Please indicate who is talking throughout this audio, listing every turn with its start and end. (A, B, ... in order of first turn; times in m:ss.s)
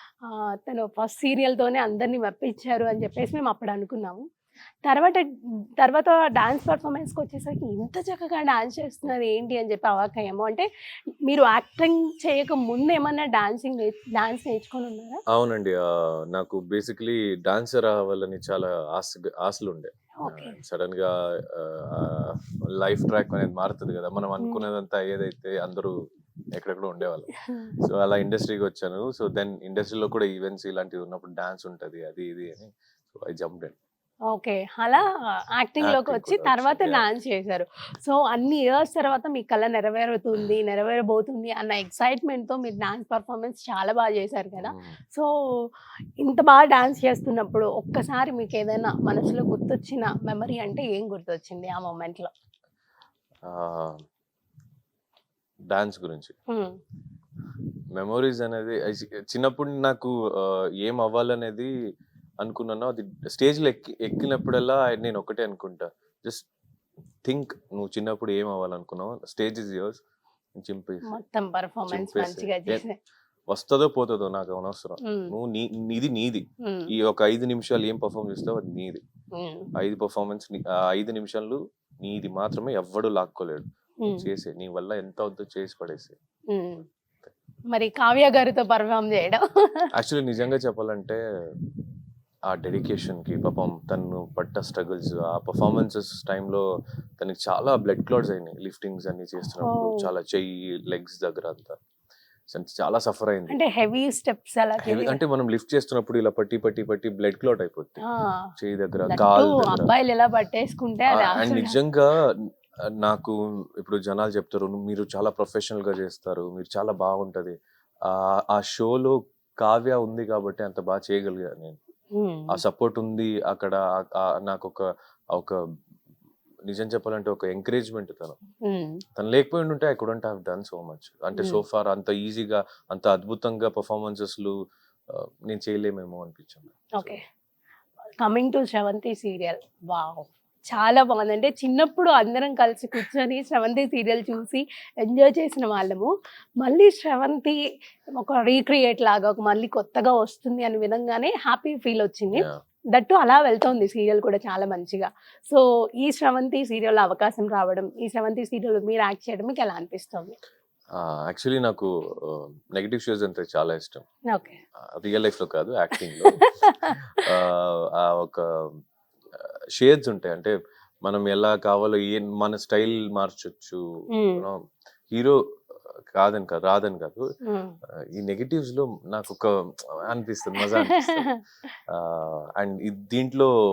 0:00.2-0:04.2 A
0:04.8-0:05.3 A
0:05.8-0:10.7 A
0:11.2-0:15.2 A
0:15.3-0:25.9 B
0:20.2-0:20.6 A
0:26.5-0:27.3 B
0:27.8-0:33.8 B
0:34.3-0:45.7 A
0:35.8-0:37.0 B
0:44.6-0:45.0 B
0:46.2-0:52.3 A
0:53.4-0:54.0 B
0:55.7-0:56.3 B
0:56.5-0:56.8 A
0:57.9-1:01.7 B
1:02.4-1:06.5 B
1:07.2-1:10.0 B
1:10.6-1:11.1 B
1:11.1-1:13.0 A
1:11.9-1:12.8 B
1:13.5-1:19.0 B
1:15.0-1:15.3 A
1:16.6-1:16.9 A
1:19.3-1:19.7 A
1:19.8-1:26.1 B
1:24.0-1:24.3 A
1:26.5-1:26.8 A
1:27.7-1:29.9 A
1:29.9-1:31.2 B
1:32.5-1:36.6 B
1:37.2-1:41.8 B
1:39.6-1:40.1 A
1:42.5-1:43.6 B
1:43.5-1:45.2 A
1:44.8-1:48.0 B
1:48.0-1:48.5 A
1:48.6-1:49.9 B
1:49.1-1:51.8 A
1:51.1-1:52.5 B
1:53.0-1:57.5 B
1:58.0-2:01.8 B
2:02.2-2:02.6 A
2:02.5-2:05.6 B
2:06.7-2:08.4 B
2:08.6-2:09.0 A
2:09.2-2:14.5 B
2:15.1-2:17.2 B
2:18.2-2:26.1 A
2:26.6-2:27.6 A
2:28.1-2:40.4 A
2:32.3-2:32.6 B
2:41.0-2:44.0 B
2:44.3-2:44.6 A
2:44.9-2:46.4 B
2:46.2-2:47.0 A
2:47.2-2:48.7 B
2:49.4-2:53.8 B
2:54.1-2:54.4 A
2:56.2-2:57.2 B
2:57.5-2:57.8 A
2:58.1-2:59.5 B
3:00.0-3:01.3 B
3:00.6-3:01.4 A
3:01.9-3:03.5 B